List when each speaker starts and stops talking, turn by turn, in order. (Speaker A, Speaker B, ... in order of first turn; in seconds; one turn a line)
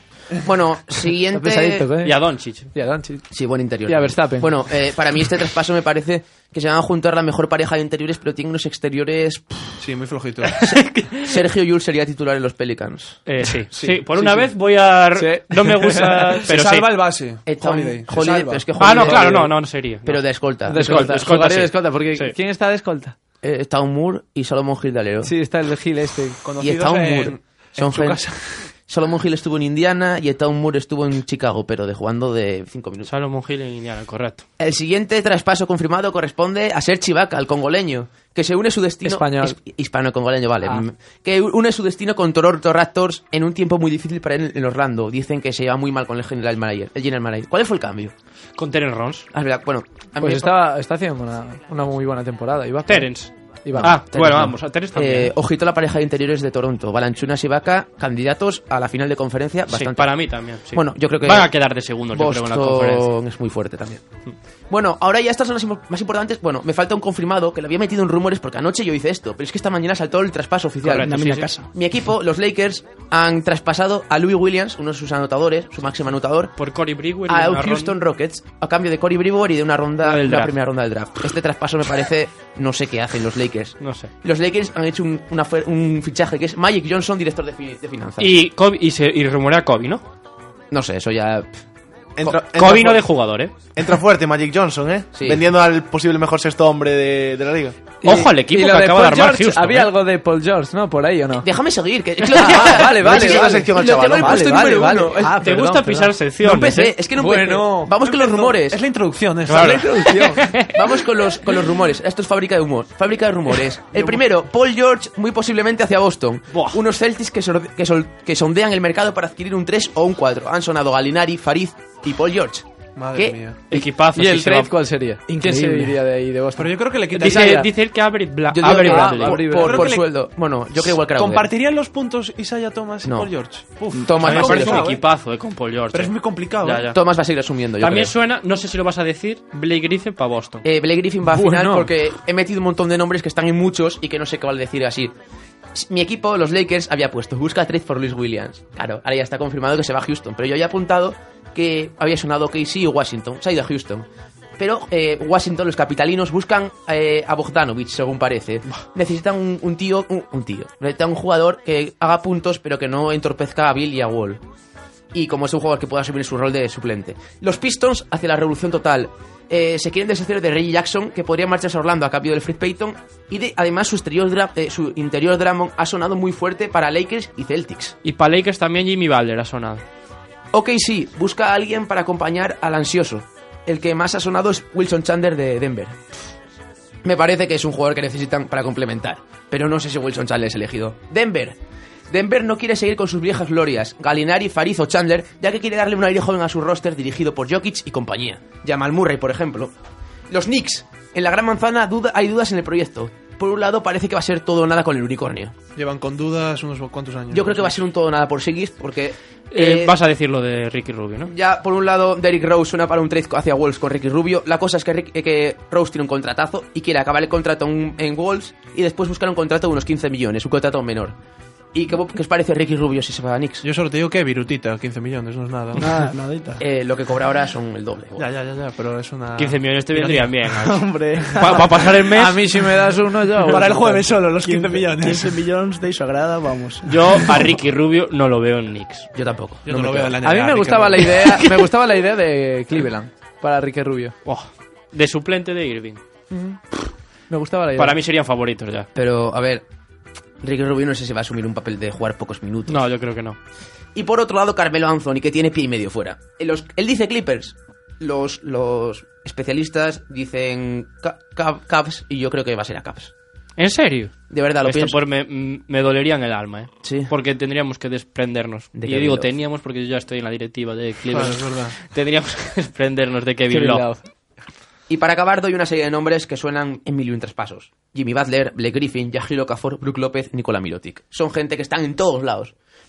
Speaker A: 0.3-1.9
Speaker B: 1.3-3.3
Speaker C: 2.0-2.7
Speaker A: 3.3-9.8
Speaker B: 3.9-4.5
Speaker D: 9.8-10.6
Speaker C: 10.6-11.4
Speaker A: 10.7-13.2
Speaker C: 13.3-17.0
Speaker D: 13.7-14.5
Speaker B: 15.2-16.5
Speaker D: 16.5-18.7
Speaker A: 17.5-21.0
Speaker C: 18.8-22.4
Speaker B: 18.9-19.5
Speaker B: 20.7-23.1
Speaker A: 23.4-25.3
Speaker B: 25.2-26.5
Speaker D: 26.4-28.6
Speaker A: 26.6-28.3
Speaker A: 28.9-33.1
Speaker C: 33.1-34.4
Speaker A: 34.6-48.1
Speaker B: 39.0-39.6
Speaker C: 48.6-49.3
Speaker A: 49.3-50.5
Speaker B: 50.2-54.5
Speaker C: 52.9-55.3
Speaker A: 54.1-61.5
Speaker C: 59.7-63.1
Speaker A: 62.1-64.0
Speaker A: 64.7-71.2
Speaker C: 70.8-71.5
Speaker E: 71.0-71.7
Speaker A: 71.7-76.5
Speaker C: 76.6-78.0
Speaker A: 77.3-88.4
Speaker C: 80.0-80.5
Speaker C: 83.8-84.1
Speaker C: 88.2-90.0
Speaker A: 90.7-91.6
Speaker F: 92.2-93.0
Speaker C: 92.5-93.5
Speaker F: 93.8-97.8
Speaker A: 95.1-95.4
Speaker B: 98.0-101.5
Speaker C: 98.0-99.9
Speaker A: 101.4-105.3
Speaker B: 102.3-107.9
Speaker F: 103.0-104.6
Speaker C: 105.4-107.0
Speaker A: 106.4-108.8
Speaker D: 108.0-110.2
Speaker C: 109.5-110.7
Speaker B: 109.5-110.5
Speaker A: 110.7-123.4
Speaker C: 116.5-116.8
Speaker D: 123.0-123.7
Speaker C: 123.7-124.7
Speaker B: 123.7-127.7
Speaker E: 125.3-126.0
Speaker D: 126.6-127.6
Speaker C: 127.2-129.4
Speaker A: 128.5-131.5
Speaker B: 128.7-130.0
Speaker D: 129.4-130.1
Speaker D: 130.8-135.0
Speaker A: 133.0-133.3
Speaker A: 133.9-134.9
Speaker C: 134.2-137.0
Speaker D: 135.9-136.9
Speaker A: 136.9-138.1
Speaker C: 137.8-140.6
Speaker A: 140.6-145.1
Speaker B: 141.3-141.9
Speaker A: 145.7-154.1
Speaker A: 154.6-164.4
Speaker A: 165.1-178.0
Speaker C: 178.0-179.8
Speaker A: 180.5-186.0
Speaker A: 187.0-191.6
Speaker A: 192.1-199.7
Speaker A: 200.3-205.5
Speaker D: 205.8-207.8
Speaker A: 207.3-209.9
Speaker C: 209.5-211.3
Speaker A: 211.3-221.2
Speaker A: 221.7-223.7
Speaker D: 223.6-225.9
Speaker E: 225.8-226.6
Speaker A: 226.6-228.2
Speaker D: 228.2-230.4
Speaker C: 229.4-232.4
Speaker E: 230.6-231.8
Speaker B: 232.1-234.2
Speaker D: 233.4-235.4
Speaker E: 234.2-237.5
Speaker C: 236.8-239.1
Speaker A: 239.2-240.2
Speaker D: 239.7-241.4
Speaker B: 240.2-244.2
Speaker C: 244.2-246.0
Speaker B: 246.3-246.6
Speaker B: 247.3-248.0
Speaker C: 247.8-248.9
Speaker A: 248.9-249.6
Speaker A: 250.4-252.8
Speaker C: 252.7-253.4
Speaker A: 253.9-263.1
Speaker C: 263.6-273.9
Speaker A: 264.3-265.0
Speaker A: 266.8-267.1
Speaker A: 268.8-269.3
Speaker D: 271.1-271.8
Speaker B: 273.5-274.0
Speaker A: 274.9-282.5